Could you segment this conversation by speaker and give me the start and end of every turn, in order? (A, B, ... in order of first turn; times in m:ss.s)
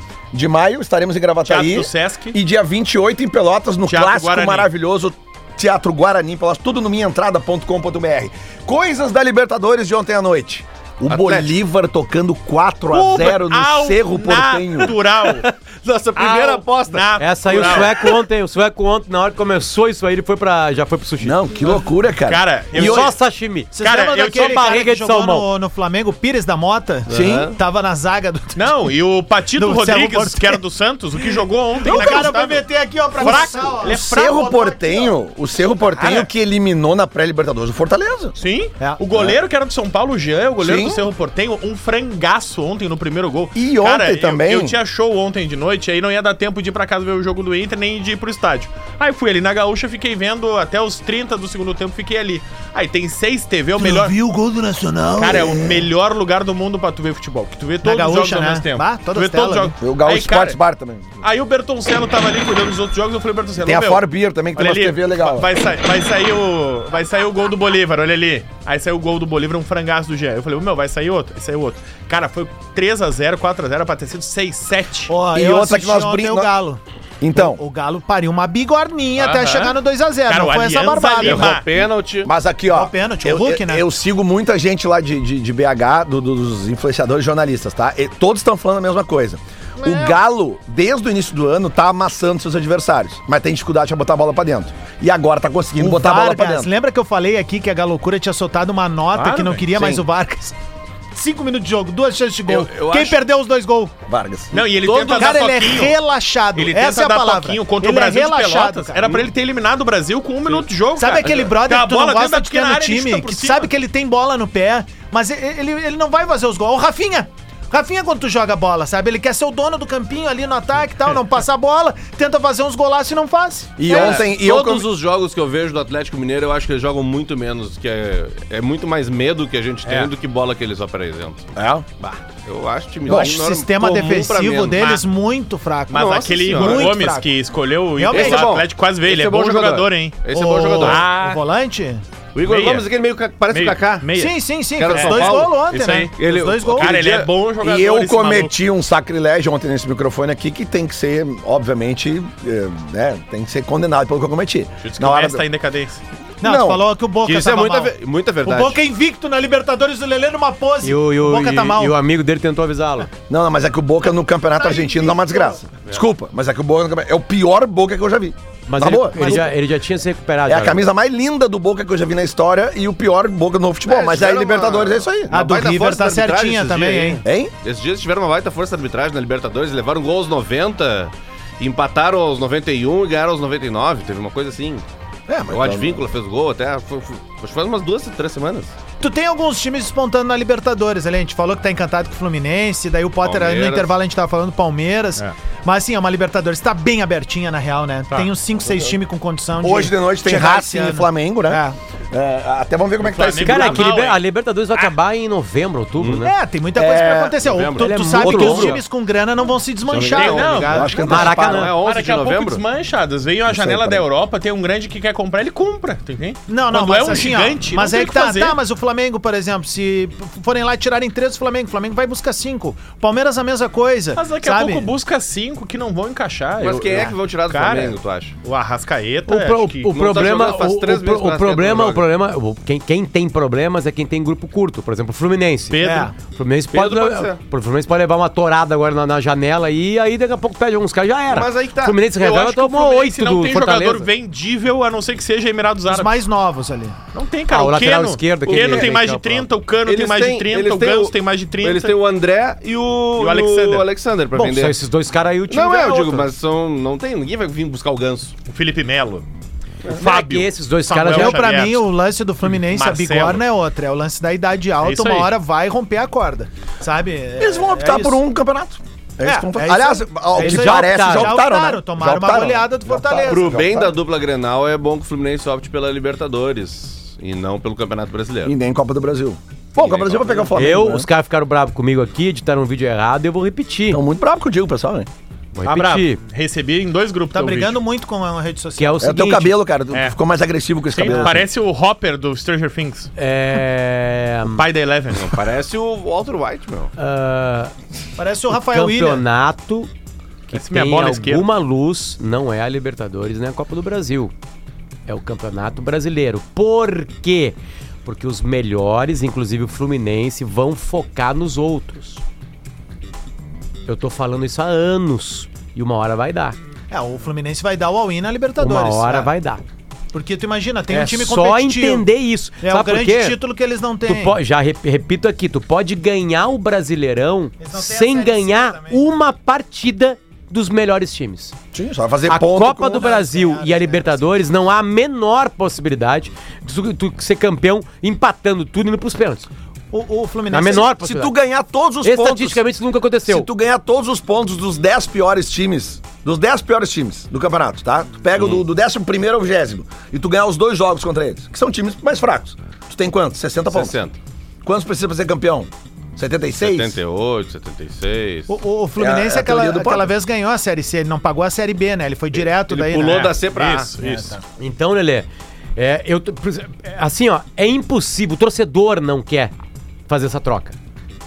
0:00.3-0:14.9 A
0:01.4-0:02.4 B
0:03.9-0:04.7 B
0:11.1-0:11.5 C
0:12.9-0:15.4 B
0:15.2-0:18.2 C
0:16.2-0:17.9 B
0:17.2-0:21.4 D
0:21.2-0:23.1 A
0:22.2-0:23.1 B
0:22.8-0:25.5 D
0:23.7-0:28.8 E
0:23.8-0:24.8 B
0:27.1-0:27.6 C
0:27.1-0:27.5 A
0:28.5-0:34.4 B
0:29.6-0:30.6 E
0:31.8-0:35.1 E
0:31.8-0:32.3 A
0:33.2-0:38.4 A
0:36.0-0:36.3 B
0:38.4-0:54.1 B
0:39.1-0:39.4 A
0:40.6-0:41.1 A
0:43.5-0:44.8 A
0:53.8-0:55.7 E
0:55.2-1:00.6 B
0:57.8-0:59.8 E
0:59.8-1:01.2 A
1:01.2-1:04.0 B
1:03.6-1:05.6 A
1:04.5-1:15.1 B
1:15.1-1:16.8 E
1:15.3-1:16.5 A
1:17.2-1:17.6 A
1:17.3-1:21.6 E
1:19.2-1:21.7 B
1:21.2-1:22.3 C
1:22.2-1:36.7 A
1:22.7-1:23.8 E
1:29.8-1:30.2 E
1:35.8-1:40.5 E
1:39.1-1:39.6 B
1:39.7-1:40.0 A
1:41.1-1:43.9 E
1:42.5-1:43.2 C
1:44.1-1:44.5 A
1:44.5-1:46.0 B
1:44.8-1:45.4 C
1:45.1-1:49.2 E
1:46.5-1:53.7 B
1:51.0-2:04.2 E
2:03.8-2:04.9 A
2:03.8-2:15.0 C
2:09.8-2:10.1 B
2:11.5-2:11.9 A
2:13.1-2:13.4 A
2:13.1-2:17.3 E
2:14.8-2:15.0 B
2:15.9-2:16.9 C
2:15.9-2:21.4 B
2:18.0-2:18.6 E
2:18.1-2:21.0 C
2:20.3-2:22.0 E
2:22.3-2:24.2 C
2:22.4-2:22.9 B
2:23.5-2:24.3 B
2:24.2-2:26.9 E
2:24.8-2:27.3 C
2:24.9-2:26.1 B
2:26.8-2:28.5 B
2:27.6-2:35.4 A
2:34.8-2:36.0 B
2:36.4-2:36.8 A
2:36.4-2:42.0 E
2:37.2-2:38.8 C
2:40.8-2:43.1 D
2:43.3-2:49.5 A
2:44.6-2:45.6 E
2:48.7-2:50.8 D
2:48.8-2:49.5 E
2:50.5-2:55.4 A
2:53.9-3:04.8 C
2:55.3-2:57.2 E
2:57.2-2:57.5 A
3:05.3-3:06.0 A
3:05.5-3:08.7 C
3:09.0-3:21.8 E
3:13.2-3:13.9 C
3:19.6-3:23.9 A
3:23.0-3:24.2 B
3:23.4-3:26.3 D
3:26.0-3:26.2 C
3:26.2-3:31.2 E
3:26.7-3:27.4 A
3:27.4-3:28.6 C
3:27.8-3:28.8 D
3:28.2-3:28.8 A
3:29.8-3:32.6 C
3:30.1-3:30.9 B
3:30.7-3:31.7 A
3:31.0-3:31.7 D
3:31.8-3:38.6 B
3:33.5-3:34.0 A
3:36.5-3:44.9 E
3:44.1-3:49.9 B
3:46.6-3:48.3 C
3:49.3-4:04.1 D
3:49.9-3:52.1 C
3:55.7-3:56.1 B
3:55.8-3:56.1 E
3:56.7-3:57.4 C
4:01.3-4:02.0 C
4:02.1-4:06.2 B
4:05.9-4:07.0 E
4:07.1-4:12.0 B
4:07.5-4:09.4 D
4:08.5-4:09.1 C
4:09.8-4:14.8 C
4:13.2-4:13.8 B
4:14.3-4:16.3 D
4:15.5-4:18.3 C
4:18.5-4:19.2 B
4:19.9-4:21.9 B
4:19.9-4:21.4 D
4:21.1-4:28.2 E
4:22.4-4:23.4 B
4:24.8-4:25.3 B
4:27.4-4:33.9 A
4:29.2-4:33.8 E
4:30.3-4:31.4 D
4:33.3-4:38.5 C
4:38.4-4:41.1 A
4:39.8-4:40.5 C
4:40.5-4:44.0 D
4:43.9-4:45.1 A
4:45.6-4:46.2 D
4:45.6-4:47.8 B
4:47.3-4:49.1 E
4:48.8-4:49.6 D
4:49.0-4:51.5 A
4:49.9-4:50.2 B
4:50.9-4:53.1 B
4:53.2-4:54.6 D
4:54.6-4:55.3 B
4:55.1-4:56.9 C
4:57.0-4:57.7 D
4:58.2-4:59.2 E
4:58.5-4:59.9 D
5:00.5-5:04.3 D
5:00.5-5:01.4 B
5:05.1-5:12.2 D
5:13.9-5:16.6 D
5:16.9-5:19.3 E
5:18.6-5:19.6 D
5:20.1-5:22.1 E
5:20.9-5:23.4 D
5:22.6-5:24.4 E
5:24.0-5:31.5 D
5:27.6-5:29.0 E
5:31.7-5:33.1 A
5:32.3-5:39.5 D
5:32.8-5:34.2 E
5:39.9-5:40.9 E
5:40.5-5:41.3 D
5:41.0-5:42.6 A
5:42.0-5:43.5 D
5:43.2-5:53.9 A
5:53.7-5:54.2 C
5:54.6-5:57.0 A
5:56.6-5:58.5 C
5:58.5-6:03.3 E
5:59.0-6:00.1 A
6:02.4-6:04.3 C
6:03.0-6:04.3 B
6:04.0-6:04.4 E
6:04.6-6:09.5 D
6:10.1-6:10.8 D